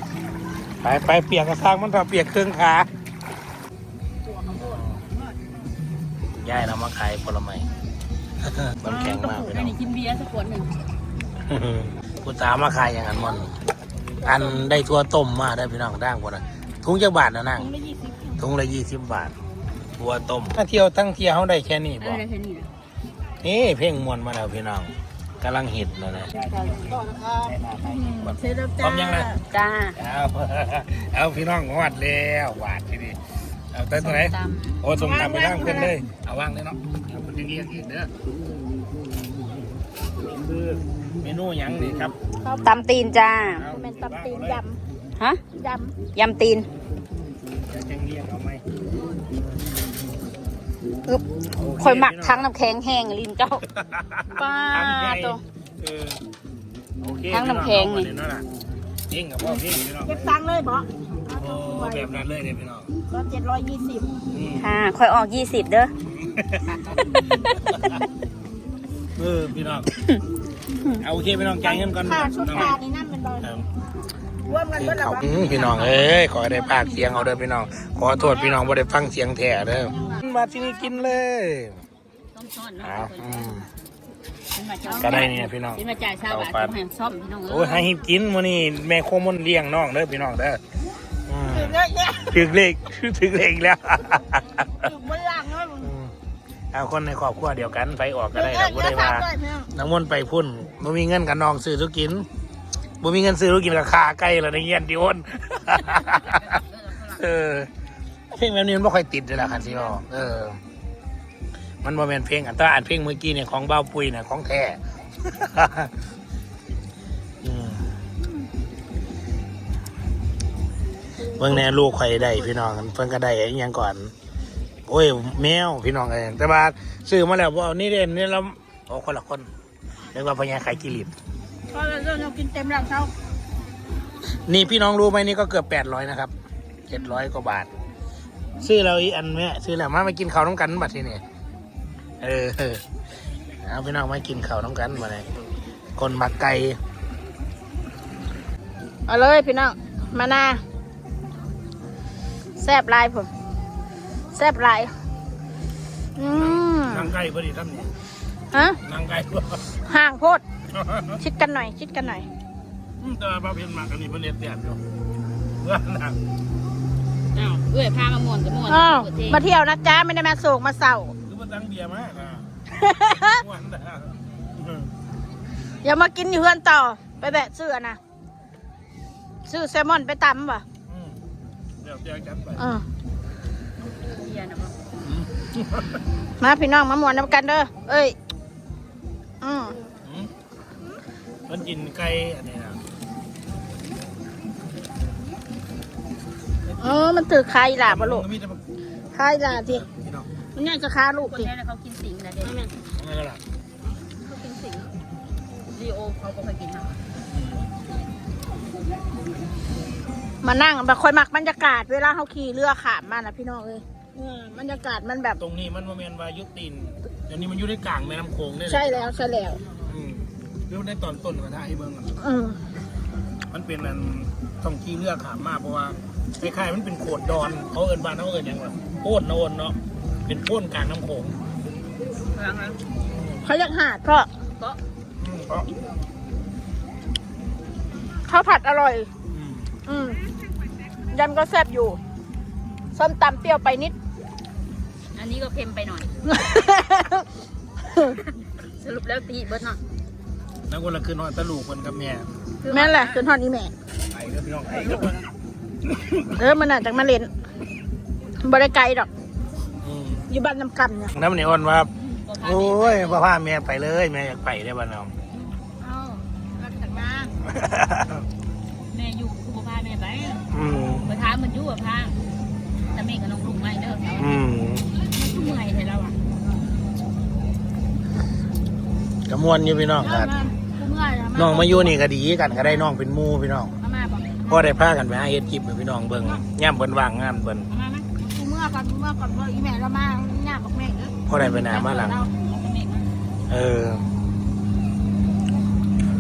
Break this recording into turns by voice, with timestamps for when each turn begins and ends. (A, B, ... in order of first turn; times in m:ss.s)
0:00.8-0:02.9 A
0:04.2-0:05.2 B
0:04.6-0:05.0 A
0:06.4-0:07.7 A
0:08.4-0:09.8 A
0:08.8-0:10.8 C
0:11.4-0:13.6 A
0:14.2-0:14.6 B
0:14.2-0:17.7 A
0:17.6-0:18.4 B
0:18.4-0:19.4 A
0:20.0-0:22.2 A
0:22.0-0:22.7 C
0:23.4-0:29.3 A
0:26.4-0:26.9 C
0:26.9-0:29.4 B
0:29.5-0:30.0 C
0:30.0-0:33.2 A
0:33.7-0:38.1 A
0:34.0-0:34.8 C
0:34.9-0:36.0 B
0:40.3-0:42.2 A
0:42.4-0:44.8 B
0:42.6-0:43.6 C
0:43.5-0:44.6 A
0:45.5-0:46.0 B
0:46.2-0:46.7 C
0:47.7-0:48.6 A
0:51.5-0:52.5 A
0:51.8-0:53.6 C
0:53.5-0:56.2 A
0:54.4-0:55.4 C
0:57.0-0:58.5 A
0:57.3-0:58.1 C
0:59.1-1:00.3 A
1:00.0-1:02.1 B
1:01.3-1:02.9 A
1:03.1-1:04.2 B
1:04.3-1:04.7 A
1:04.6-1:05.9 C
1:06.1-1:08.0 A
1:07.1-1:07.6 C
1:09.2-1:09.9 A
1:10.9-1:12.8 A
1:11.6-1:13.5 B
1:14.4-1:15.5 B
1:14.7-1:21.8 A
1:15.5-1:16.3 C
1:18.2-1:18.8 B
1:19.9-1:20.4 B
1:22.3-1:23.5 C
1:22.8-1:23.7 A
1:24.5-1:27.9 C
1:24.9-1:25.3 B
1:24.9-1:26.8 A
1:27.5-1:30.6 A
1:31.3-1:34.9 A
1:31.5-1:32.4 B
1:34.8-1:35.9 B
1:35.8-1:36.1 A
1:36.7-1:42.3 A
1:38.3-1:39.7 B
1:43.0-1:46.5 A
1:45.8-1:47.2 C
1:47.1-1:47.7 A
1:48.3-1:50.6 A
1:51.8-1:55.9 A
1:57.4-1:57.9 A
2:01.3-2:04.1 A
2:04.9-2:09.5 A
2:10.1-2:11.1 A
2:11.7-2:13.1 B
2:14.3-2:16.3 A
2:16.9-2:17.7 A
2:18.6-2:21.2 A
2:22.2-2:22.8 A
2:23.6-2:25.3 A
2:26.0-2:26.8 A
2:29.1-2:30.6 B
2:32.6-2:33.3 B
2:34.3-2:34.9 B
2:36.2-2:37.1 B
2:36.3-2:37.9 A
2:38.5-2:38.8 B
2:38.8-2:39.7 A
2:39.8-2:40.4 B
2:40.7-2:41.2 A
2:41.2-2:42.3 B
2:43.0-2:44.8 A
2:45.6-2:46.2 A
2:47.3-2:49.4 C
2:48.7-2:51.1 B
2:51.2-2:54.9 A
2:52.8-2:53.4 B
2:55.8-2:58.0 B
2:59.4-3:00.6 B
3:00.9-3:01.2 A
3:01.8-3:02.6 A
3:02.6-3:02.8 B
3:04.1-3:04.7 C
3:05.0-3:06.0 A
3:06.4-3:08.2 B
3:09.4-3:09.8 B
3:10.0-3:10.3 A
3:11.5-3:12.8 A
3:16.8-3:18.3 B
3:17.8-3:18.6 A
3:19.1-3:19.9 B
3:19.8-3:20.3 A
3:20.6-3:21.5 B
3:21.3-3:22.7 C
3:22.4-3:22.7 B
3:23.0-3:23.4 A
3:24.2-3:24.9 C
3:25.7-3:27.0 C
3:27.3-3:27.7 A
3:30.4-3:35.4 B
3:35.4-3:39.0 A
3:38.7-3:39.6 B
3:39.9-3:42.2 A
3:42.2-3:42.6 B
3:43.5-3:51.4 A
3:52.3-3:52.8 C
3:53.1-3:53.4 A
3:53.4-3:54.3 B
3:55.2-3:55.7 A
3:58.3-3:59.1 B
3:59.3-3:59.7 A
3:59.9-4:00.2 B
4:01.1-4:02.0 B
4:02.9-4:04.0 B
4:05.1-4:06.2 C
4:06.3-4:07.2 B
4:07.8-4:08.2 B
4:08.4-4:09.8 C
4:10.7-4:12.3 A
4:12.6-4:13.3 C
4:12.6-4:13.7 B
4:14.1-4:15.2 A
4:14.6-4:15.3 C
4:15.9-4:16.3 A
4:16.3-4:17.3 B
4:18.4-4:19.1 B
4:19.8-4:20.2 A
4:20.3-4:21.2 B
4:21.1-4:25.2 A
4:22.0-4:23.2 C
4:25.8-4:27.4 B
4:27.5-4:28.2 A
4:28.9-4:30.5 C
4:30.5-4:31.1 A
4:31.0-4:32.2 C
4:32.9-4:34.4 C
4:34.2-4:34.9 A
4:35.1-4:36.2 C
4:39.3-4:40.3 A
4:40.0-4:42.0 B
4:41.3-4:43.7 A
4:42.5-4:42.9 B
4:43.8-4:44.8 C
4:44.5-4:47.7 A
4:47.7-4:48.1 C
4:48.2-4:52.3 B
4:51.3-4:52.2 A
4:51.9-4:53.1 C
4:53.5-4:54.0 A